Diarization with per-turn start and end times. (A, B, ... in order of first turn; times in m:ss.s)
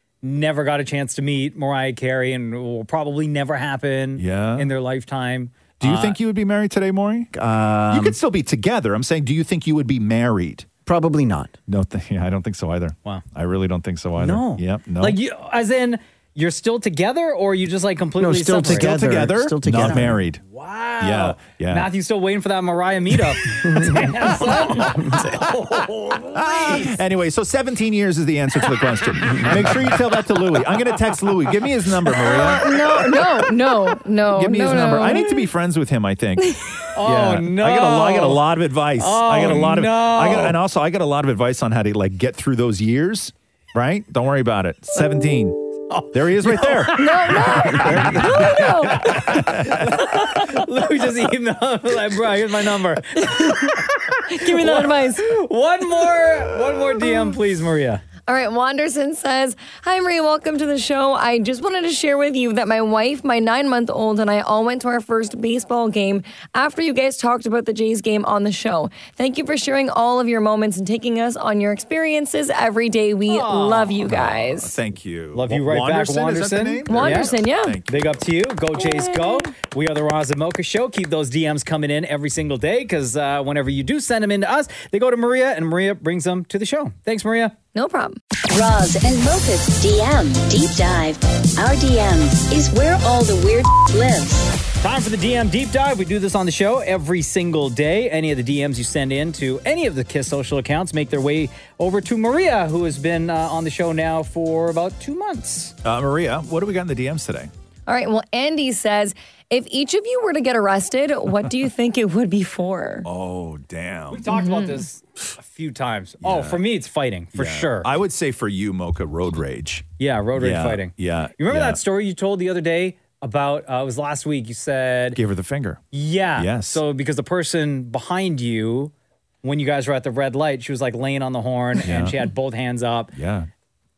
0:00.2-0:06.2 A
0:04.2-0:04.7 B
0:05.8-0:10.7 B
0:07.3-0:08.2 C
0:10.8-0:11.5 C
0:11.7-0:15.2 B
0:14.2-0:19.0 A
0:18.2-0:20.2 C
0:18.6-0:20.4 B
0:20.5-0:26.9 A
0:21.0-0:21.9 B
0:23.7-0:24.2 C
0:26.3-0:33.4 B
0:32.2-0:35.4 D
0:34.2-0:50.0 B
0:36.9-0:38.4 A
0:39.0-0:40.6 A
0:45.9-0:48.2 A
0:46.9-0:49.3 D
0:48.9-0:58.0 A
0:53.2-0:55.2 D
0:58.3-1:14.7 D
1:13.3-1:14.0 A
1:14.0-1:18.2 B
1:15.3-1:17.3 A
1:16.9-1:17.8 D
1:17.9-1:27.6 A
1:18.8-1:19.5 D
1:27.7-1:28.2 D
1:28.5-1:34.5 E
1:34.8-1:45.7 A
1:45.8-1:47.5 B
1:47.9-1:53.1 D
1:53.0-1:54.3 B
1:54.1-1:57.9 A
1:54.3-1:54.8 D
1:56.2-1:56.6 B
1:57.3-2:01.8 B
2:00.0-2:05.2 A
2:05.1-2:05.8 B
2:05.9-2:13.1 A
2:06.4-2:06.8 B
2:11.8-2:12.2 B
2:13.1-2:13.5 B